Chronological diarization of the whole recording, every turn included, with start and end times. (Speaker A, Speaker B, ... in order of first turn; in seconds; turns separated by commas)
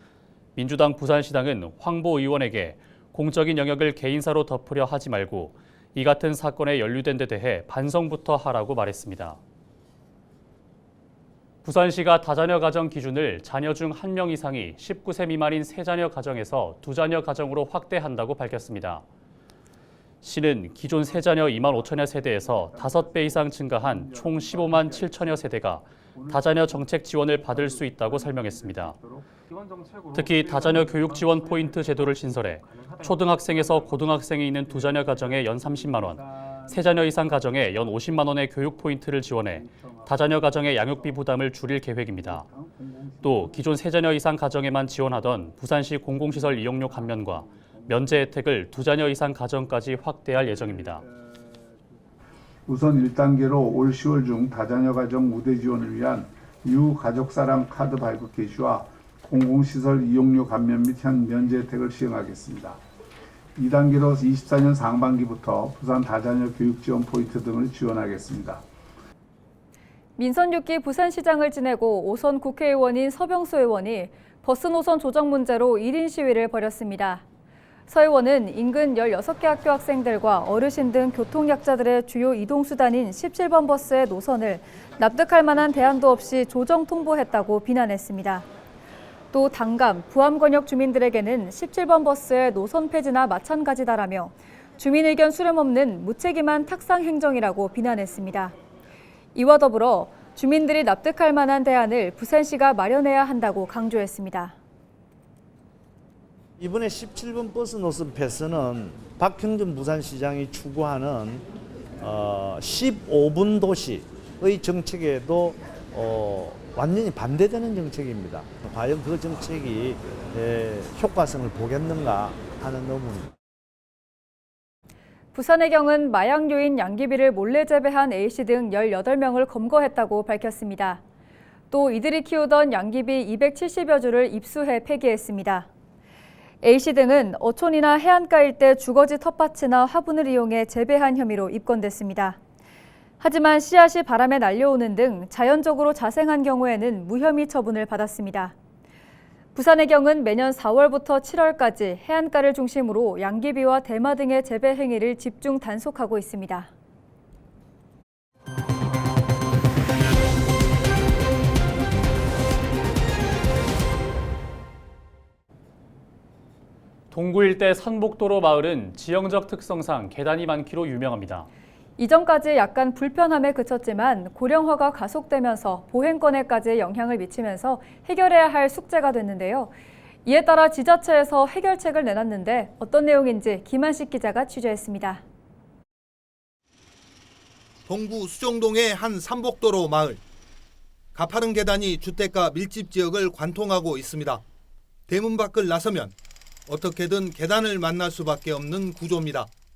Speaker A: 0.6-9.4, Speaker A: 11.6-19.0, Speaker A: 20.2-29.0, Speaker A: 30.1-42.5, Speaker A: 43.2-51.0, Speaker B: 52.7-62.8, Speaker B: 63.5-68.6, Speaker C: 70.2-77.2, Speaker C: 77.9-88.5, Speaker C: 89.3-98.5, Speaker C: 99.3-104.5, Speaker D: 106.7-111.4, Speaker D: 112.1-123.3, Speaker C: 125.3-131.0, Speaker C: 131.7-135.7, Speaker C: 136.6-142.4, Speaker C: 143.2-148.5, Speaker C: 149.5-156.7, Speaker A: 167.1-171.5, Speaker C: 172.0-179.7, Speaker C: 180.2-185.2, Speaker E: 187.9-190.2, Speaker E: 191.2-194.4, Speaker E: 195.1-196.1, Speaker E: 196.7-199.5